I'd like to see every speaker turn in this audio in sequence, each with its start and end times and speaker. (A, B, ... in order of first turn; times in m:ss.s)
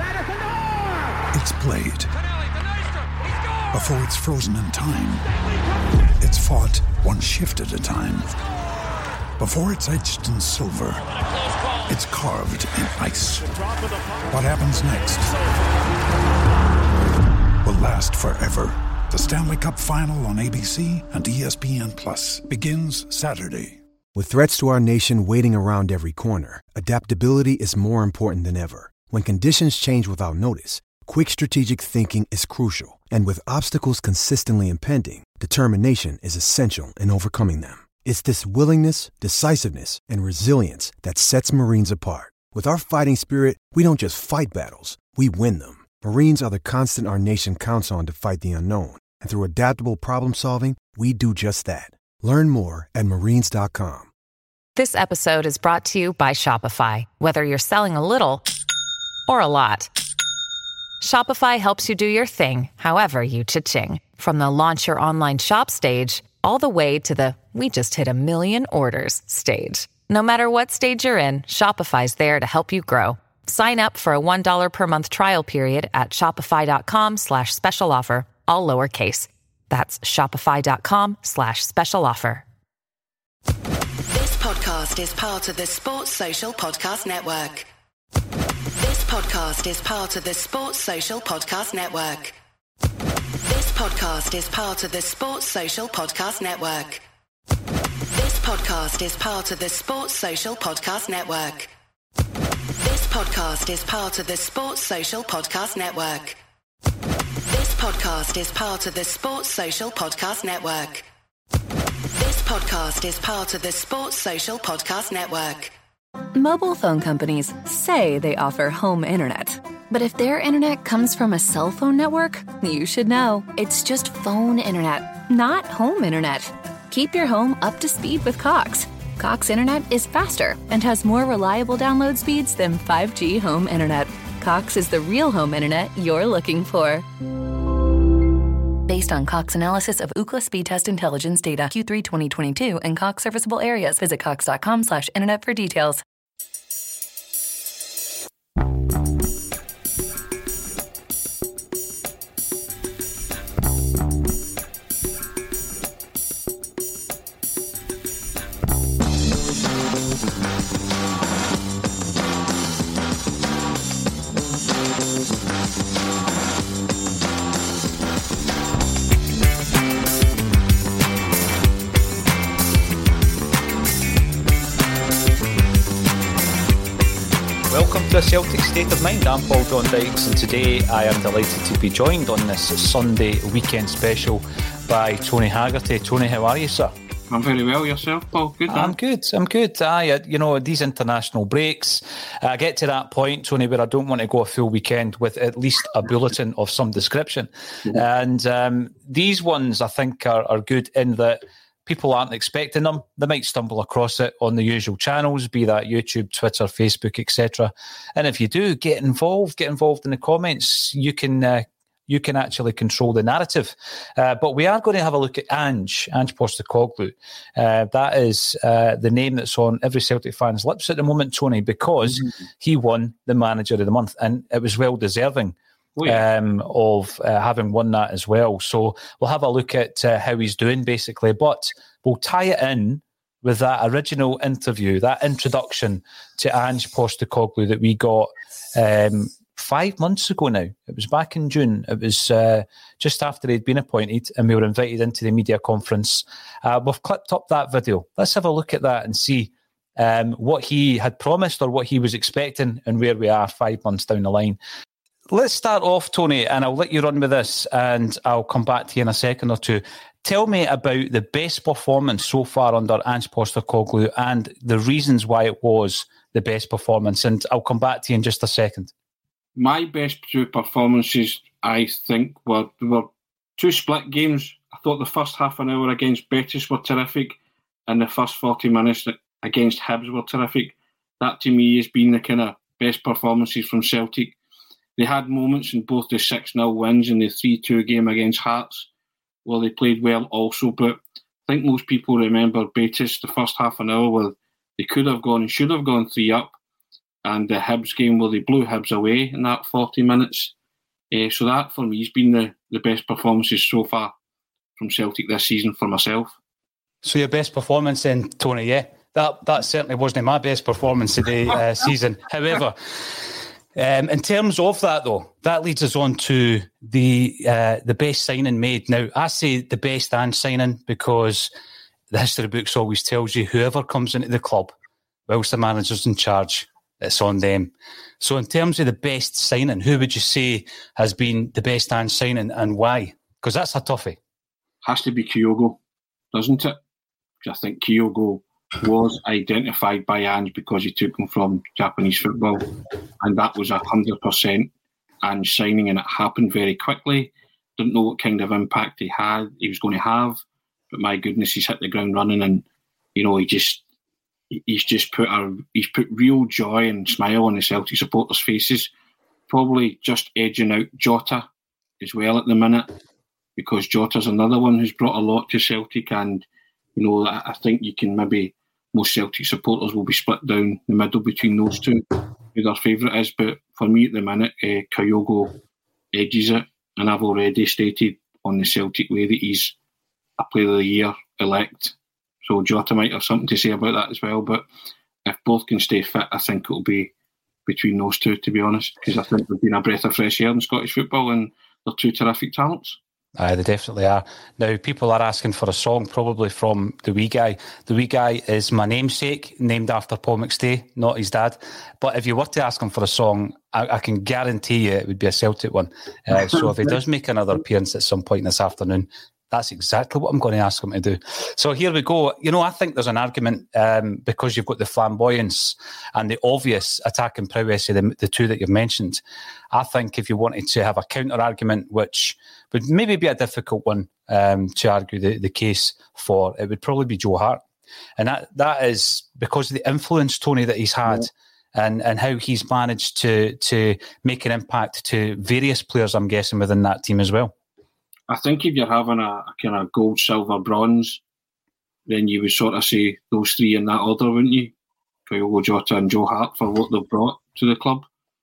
0:01.3-0:02.1 A
0:03.7-0:05.3 A
0:06.2-0:08.4 A
0:09.4-0:11.1 A
0:11.9-0:13.6 A
0:14.3-0:15.4 A
0:17.6-0:23.8 A
0:24.1-0:54.1 B
0:54.8-0:58.4 C
0:59.3-0:59.9 C
1:01.0-1:22.4 C
1:24.1-1:27.7 D
1:28.8-1:32.3 D
1:33.4-1:37.0 D
1:38.1-1:41.7 D
1:42.8-1:46.4 D
1:47.5-1:51.0 D
1:52.2-1:55.7 D
1:56.4-2:17.0 E
2:18.9-2:26.0 E
2:57.7-3:06.9 F
3:07.3-3:09.0 G
3:08.7-4:14.6 F
3:46.0-3:46.2 G
4:15.3-4:28.9 F
4:29.6-4:44.4 G
4:45.0-4:48.9 G
4:49.4-4:56.6 G
4:57.2-5:00.5 G
5:01.1-5:04.1 G
5:04.8-5:06.4 G
5:07.0-5:21.5 F
5:22.1-5:24.7 F
5:25.3-5:34.2 F
5:34.8-5:35.8 G
5:36.3-5:36.8 G
5:37.4-5:44.7 G
5:45.2-5:53.8 G
5:54.5-5:58.9 G
5:59.5-6:01.5 G
6:02.0-6:02.9 G
6:03.6-6:15.6 G
6:16.1-6:19.8 G
6:20.4-6:24.7 G
6:25.2-6:27.1 G
6:27.7-6:33.0 G
6:33.4-7:07.6 F
6:46.5-6:46.9 G
7:08.2-7:17.5 F
7:18.3-7:21.2 G
7:22.1-7:24.7 G
7:25.3-7:28.1 G